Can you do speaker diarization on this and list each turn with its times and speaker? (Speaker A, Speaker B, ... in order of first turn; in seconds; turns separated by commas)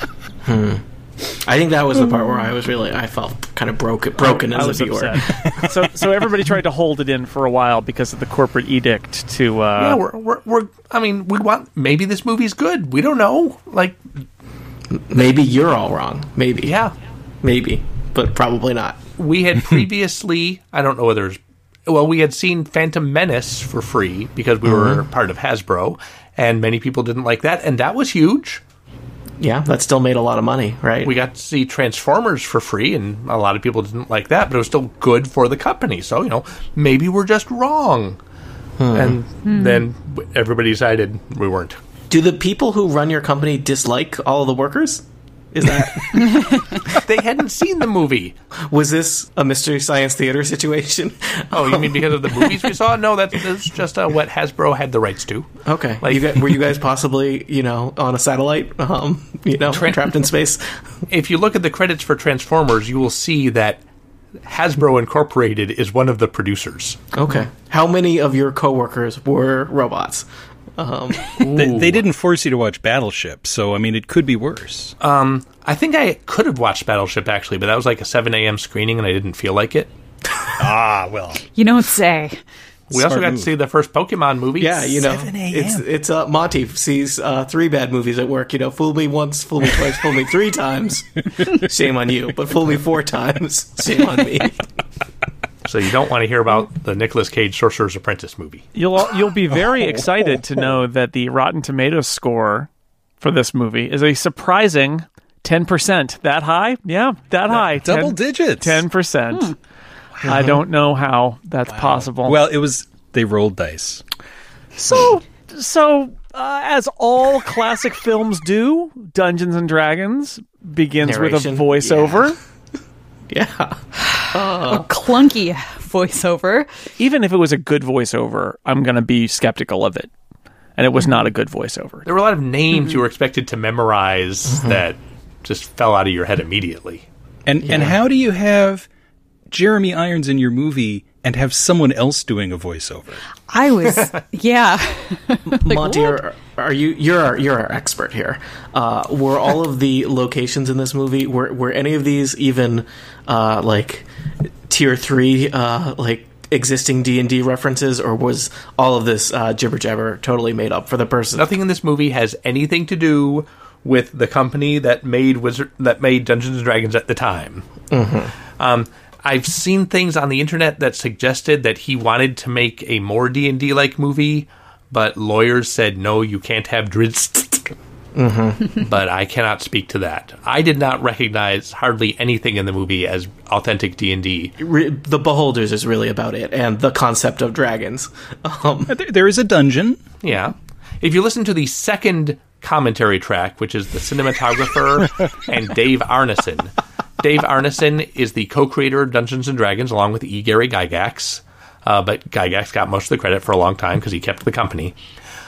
Speaker A: 0.4-5.4, Speaker B: 4.2-10.0, Speaker C: 9.8-14.0, Speaker A: 14.9-16.8, Speaker C: 16.6-16.9, Speaker A: 17.4-19.0, Speaker C: 19.2-28.6, Speaker A: 24.6-25.0, Speaker A: 29.4-31.1, Speaker C: 31.0-38.2, Speaker A: 38.8-39.2, Speaker C: 38.9-41.8, Speaker D: 39.5-39.8, Speaker A: 42.1-46.6, Speaker C: 46.9-48.4, Speaker A: 48.7-52.6, Speaker C: 51.5-55.5, Speaker A: 55.6-60.6, Speaker C: 56.0-56.5, Speaker C: 59.7-60.1, Speaker C: 61.1-63.8, Speaker C: 64.5-67.1, Speaker A: 67.1-70.2, Speaker A: 70.8-71.4, Speaker C: 71.4-72.0, Speaker E: 71.4-74.9, Speaker C: 75.0-79.9, Speaker E: 80.6-81.4, Speaker D: 81.5-82.4, Speaker C: 82.9-85.0, Speaker E: 82.9-83.5, Speaker A: 84.6-94.6, Speaker E: 85.0-85.8, Speaker C: 95.6-98.6, Speaker B: 98.7-102.7, Speaker B: 103.2-109.5, Speaker E: 107.5-108.8, Speaker B: 110.2-112.4, Speaker E: 111.7-114.0, Speaker B: 114.8-122.4, Speaker A: 121.0-122.3, Speaker A: 123.3-124.9, Speaker D: 124.1-126.7, Speaker B: 127.0-130.1, Speaker B: 130.8-132.1, Speaker C: 132.1-137.0, Speaker A: 134.5-134.8, Speaker E: 137.4-138.9, Speaker A: 137.6-138.0, Speaker E: 139.5-143.2, Speaker D: 143.5-146.2, Speaker A: 145.4-154.1, Speaker A: 154.7-161.5, Speaker C: 161.4-167.7, Speaker A: 167.9-168.3, Speaker C: 168.6-177.7, Speaker A: 178.1-178.7, Speaker C: 178.7-184.5, Speaker A: 184.6-188.9, Speaker E: 188.9-190.0, Speaker C: 190.2-205.0